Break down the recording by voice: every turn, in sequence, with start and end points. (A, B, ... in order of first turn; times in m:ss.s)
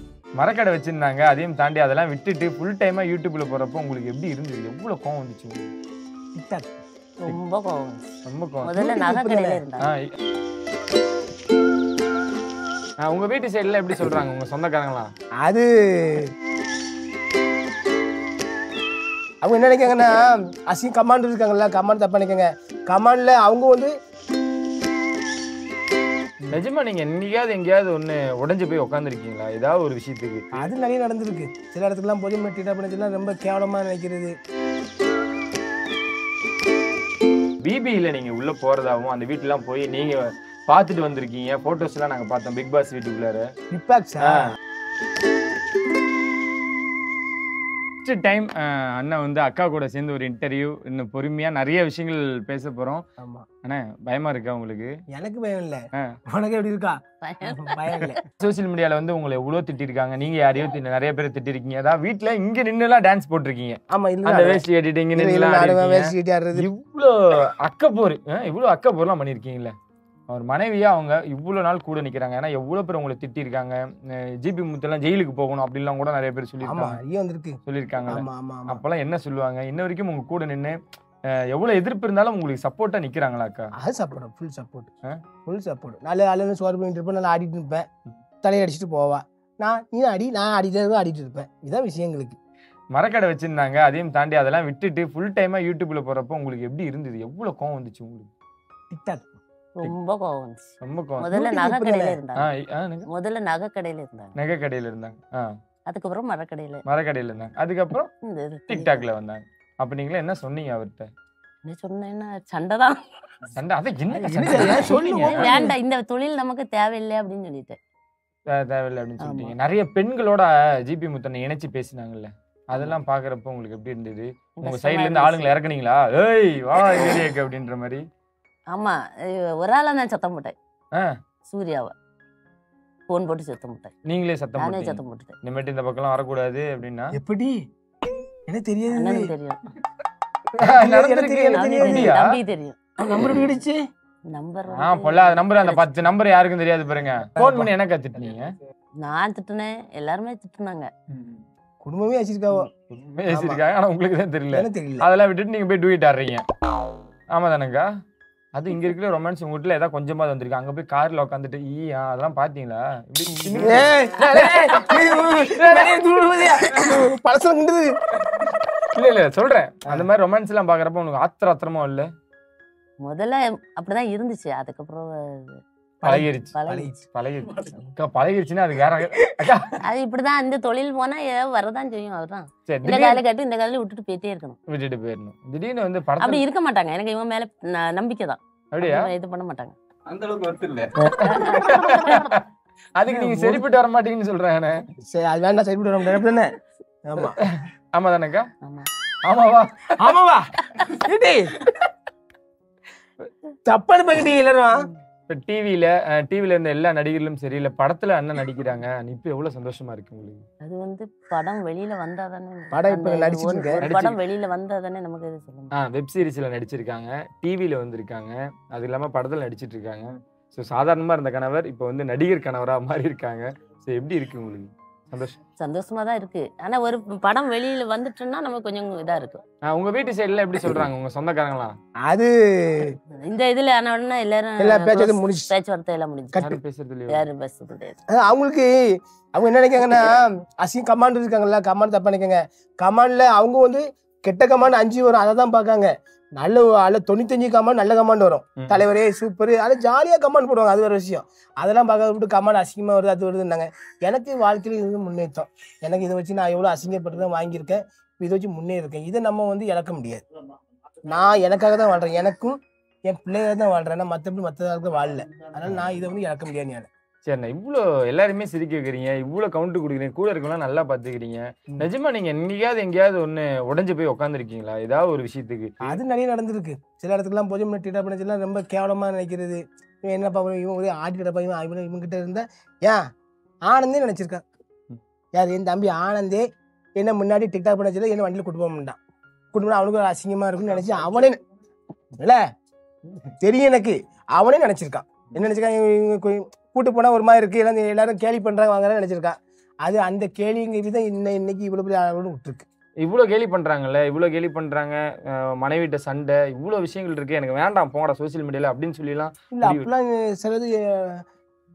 0:00.4-0:05.7 A
0:06.4-0:06.7 B
0:07.3-0:08.1 C
0:08.2-0:08.8 A
0:08.6-0:09.9 C
0:08.7-0:09.6 B
0:13.0-0:15.1 A
0:15.4-0:16.3 B
0:19.4-0:23.9 B
0:26.5-0:30.7 A
0:30.6-0:34.3 B
0:37.6-0:43.5 A
0:43.7-0:44.5 B
0:44.3-0:44.5 A
0:48.0-0:53.0 A
0:53.2-0:53.5 B
0:53.6-0:54.9 A
0:55.1-0:58.2 B
0:57.2-0:57.7 C
0:58.4-1:09.7 A
1:03.9-1:04.6 B
1:05.1-1:06.6 B
1:10.3-1:17.0 A
1:16.6-1:18.8 B
1:17.6-1:20.8 A
1:21.4-1:23.7 A
1:23.8-1:24.9 B
1:25.4-1:27.8 B
1:28.4-1:32.4 B
1:32.9-1:38.3 A
1:38.9-1:39.3 B
1:39.8-1:42.5 C
1:40.8-1:41.3 A
1:41.3-1:42.2 B
1:42.4-1:43.1 A
1:43.1-1:44.4 C
1:44.4-1:45.5 A
1:45.9-1:46.8 C
1:46.8-1:48.1 A
1:48.2-1:49.0 C
1:48.7-1:51.1 A
1:51.6-1:53.0 C
1:53.5-1:55.5 A
1:54.2-1:55.7 B
1:54.4-1:57.8 C
1:58.5-2:08.0 A
1:59.2-1:59.5 C
2:04.6-2:05.6 C
2:08.7-2:10.5 C
2:11.5-2:11.9 C
2:13.1-2:13.9 C
2:14.0-2:17.2 A
2:14.6-2:15.4 C
2:17.1-2:17.6 B
2:18.5-2:19.3 B
2:18.9-2:19.6 C
2:20.6-2:22.1 B
2:20.6-2:22.3 A
2:21.5-2:22.8 C
2:23.0-2:23.8 B
2:24.3-2:26.0 C
2:24.8-2:28.5 A
2:27.4-2:27.7 B
2:29.0-2:30.9 C
2:31.8-2:32.7 B
2:32.9-2:36.4 A
2:33.3-2:33.6 B
2:34.5-2:35.1 B
2:37.3-2:37.9 A
2:38.5-2:47.0 A
2:43.3-2:43.8 C
2:43.6-2:47.9 B
2:48.9-2:52.1 A
2:53.0-2:55.6 C
2:56.0-2:57.0 B
2:56.0-2:56.6 A
2:56.5-2:56.9 C
2:57.1-2:59.7 A
2:59.8-3:04.6 C
3:02.7-3:03.2 A
3:04.7-3:06.4 A
3:06.2-3:09.8 C
3:08.7-3:09.1 A
3:10.1-3:12.4 A
3:11.0-3:12.0 C
3:11.8-3:12.2 B
3:13.0-3:14.8 A
3:13.1-3:13.6 B
3:15.0-3:16.5 B
3:17.0-3:17.4 B
3:17.4-3:18.4 A
3:18.6-3:18.9 C
3:19.2-3:20.2 A
3:20.0-3:21.6 B
3:23.6-3:24.9 B
3:25.3-3:30.4 A
3:30.6-3:35.7 C
3:32.7-3:33.8 B
3:33.8-3:34.2 A
3:35.8-3:45.4 A
3:45.6-3:49.4 C
3:49.6-3:51.8 A
3:52.0-3:52.9 B
3:53.2-3:56.4 C
3:54.6-3:55.5 B
3:56.3-3:56.6 B
3:56.4-3:57.2 A
3:57.1-3:58.0 C
3:58.1-3:58.7 B
3:59.3-4:20.2 B
4:21.1-4:22.6 B
4:23.1-4:26.9 B
4:25.6-4:26.0 A
4:27.2-4:36.0 A
4:35.8-4:43.0 B
4:43.6-4:44.4 B
4:45.3-4:46.4 B
4:47.0-4:49.0 B
4:49.5-4:51.4 B
4:53.4-5:02.6 B
5:03.0-5:09.9 A
5:09.5-5:11.2 B